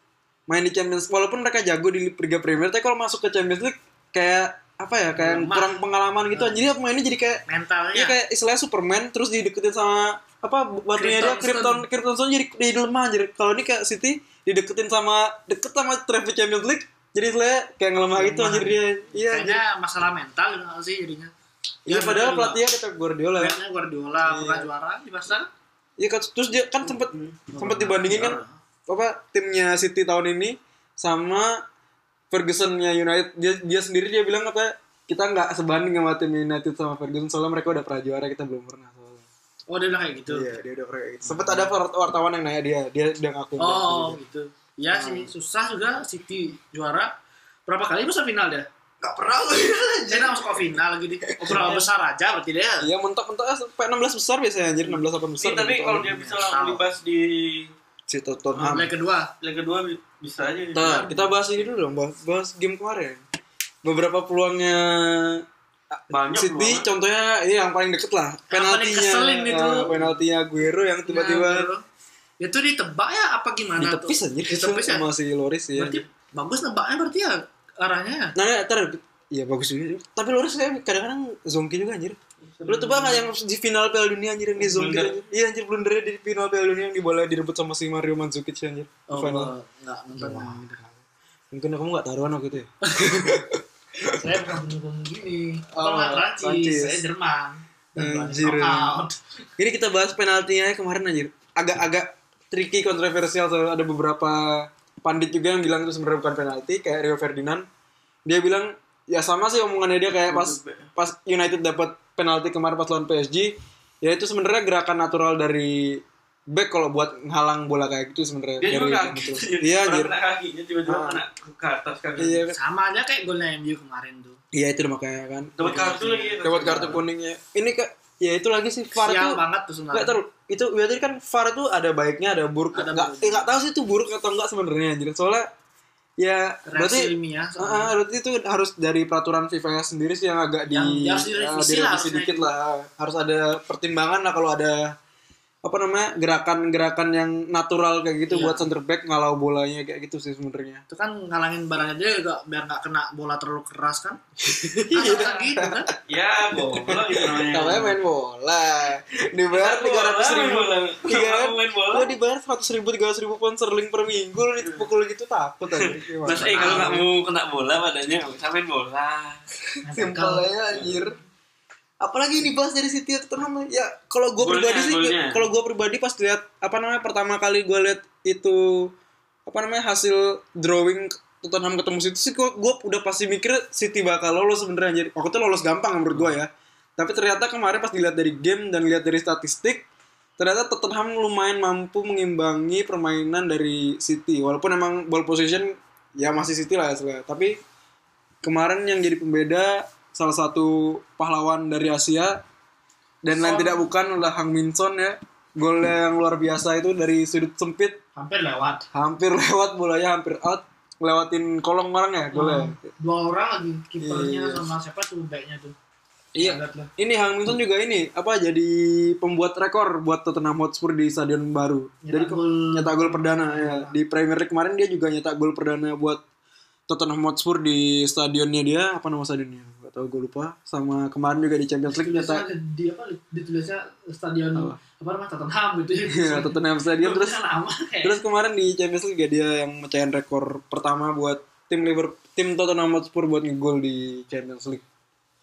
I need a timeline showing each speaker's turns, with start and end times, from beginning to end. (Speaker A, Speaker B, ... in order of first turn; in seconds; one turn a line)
Speaker A: 0.5-19.6
Speaker B: 5.2-5.8
Speaker B: 6.3-6.7
Speaker B: 7.5-8.2
Speaker B: 10.9-11.8
Speaker B: 18.1-21.3
Speaker B: 21.9-22.6
Speaker A: 21.9-23.6
Speaker B: 23.4-25.5
Speaker A: 24.2-24.7
Speaker A: 26.0-31.6
Speaker C: 26.8-27.4
Speaker B: 27.5-28.6
Speaker A: 32.3-39.3
Speaker B: 39.7-40.5
Speaker A: 40.3-44.2
Speaker B: 41.2-41.7
Speaker B: 43.6-47.1
Speaker A: 44.9-45.3
Speaker B: 47.7-48.7
Speaker A: 49.0-50.6
Speaker B: 50.1-52.9
Speaker A: 51.3-51.9
Speaker A: 52.8-56.1
Speaker C: 55.4-57.7
Speaker B: 56.0-56.9
Speaker A: 58.1-58.9
Speaker B: 58.5-59.3
Speaker C: 59.4-61.2
Speaker A: 60.7-63.2
Speaker A: 63.8-71.7
Speaker C: 66.1-66.9
Speaker B: 68.5-69.9
Speaker C: 69.9-70.2
Speaker B: 71.1-71.8
Speaker B: 72.4-75.1
Speaker A: 73.8-76.0
Speaker B: 75.8-78.3
Speaker A: 78.3-89.5
Speaker C: 82.5-83.3
Speaker C: 84.6-85.2
Speaker B: 89.1-90.9
Speaker A: 90.2-90.7
Speaker A: 91.5-94.3
Speaker B: 92.8-93.2
Speaker B: 94.1-99.2
Speaker A: 95.7-97.0
Speaker A: 98.0-99.0
Speaker A: 99.6-107.7
Speaker A: 108.3-120.1
Speaker C: 110.1-110.9
Speaker C: 118.6-122.4
Speaker A: 120.9-121.2
Speaker A: 122.2-122.6
Speaker B: 122.5-124.4
Speaker A: 124.5-125.9
Speaker C: 125.6-127.0
Speaker B: 125.7-126.9
Speaker A: 126.4-135.5
Speaker B: 129.0-130.2
Speaker B: 132.7-133.5
Speaker A: 136.2-144.9
Speaker B: 136.7-137.9
Speaker B: 140.7-142.5
Speaker A: 145.6-150.8
Speaker B: 148.3-148.7
Speaker B: 150.9-154.2
Speaker A: 154.4-155.9
Speaker B: 154.9-155.9
Speaker C: 156.1-158.0
Speaker A: 156.9-167.1
Speaker C: 159.5-162.2
Speaker C: 165.8-169.4
Speaker B: 166.4-167.0
Speaker B: 169.8-170.5
Speaker A: 169.9-171.2
Speaker C: 170.7-171.0
Speaker A: 172.0-178.9
Speaker C: 174.4-175.5
Speaker A: 179.5-189.9
Speaker C: 186.1-186.4
Speaker A: 190.4-197.6
Speaker A: 198.4-202.4
Speaker A: 203.2-208.0
Speaker B: 203.3-203.9
Speaker B: 208.2-208.8
Speaker A: 208.9-212.8
Speaker B: 212.3-215.8
Speaker A: 214.0-214.7
Speaker A: 216.3-226.2
Speaker B: 216.4-216.9
Speaker B: 222.0-224.0
Speaker A: 226.9-232.4
Speaker B: 231.9-238.2
Speaker A: 236.1-237.4
Speaker A: 238.0-244.8